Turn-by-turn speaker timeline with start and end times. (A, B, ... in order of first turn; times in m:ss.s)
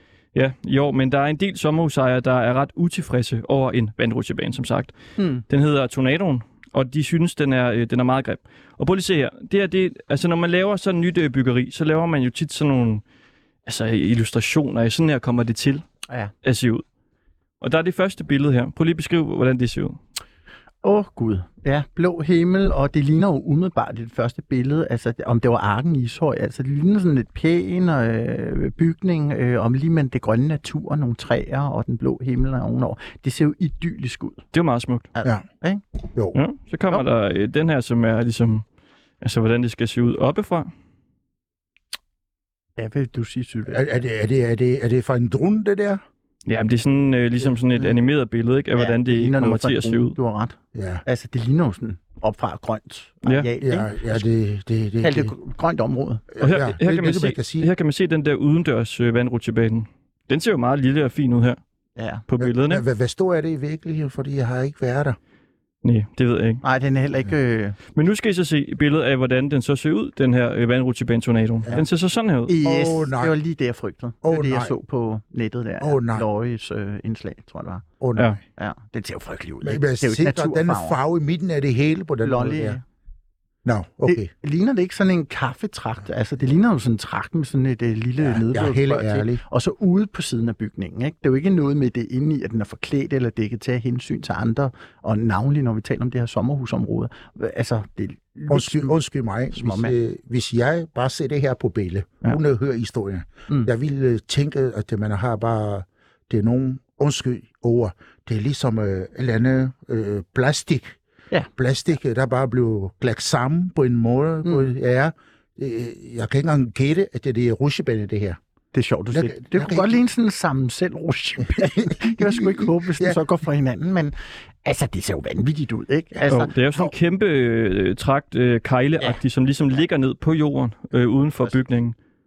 0:00.3-0:05.0 A
0:05.2-0:05.4 B
0:05.5-0:13.0 A
0:13.6-0:15.8 A
0:16.4-0:16.8 A
0:17.6-0:20.0 A
0:20.8-0:34.4 B
0:34.5-0:35.1 A
0:35.1-0:35.8 B
0:36.3-0:38.6 A
0:39.2-0:40.7 A
0:42.8-0:44.0 B
0:43.7-0:46.0 C
0:46.4-0:50.2 A
0:48.8-0:54.2 B
0:50.7-0:51.0 C
0:53.6-0:55.3 C
0:55.0-0:56.3 B
0:56.4-0:57.7 C
0:56.4-1:01.6 A
1:02.0-1:02.2 B
1:02.3-1:02.8 A
1:02.4-1:05.2 C
1:05.8-1:06.6 A
1:06.6-1:07.8 B
1:07.9-1:12.5 A
1:12.5-1:17.8 B
1:12.6-1:13.3 C
1:14.2-1:14.7 C
1:15.8-1:16.2 C
1:18.0-1:18.4 C
1:18.6-1:21.0 B
1:19.6-1:22.8 C
1:22.2-1:22.8 B
1:23.6-1:24.3 C
1:24.0-1:39.0 B
1:28.2-1:29.4 C
1:38.5-1:51.0 C
1:39.5-1:39.9 B
1:51.6-1:58.4 C
1:58.7-2:04.1 B
1:59.1-2:00.0 C
2:01.5-2:03.2 C
2:04.6-2:06.9 B
2:06.3-2:11.9 A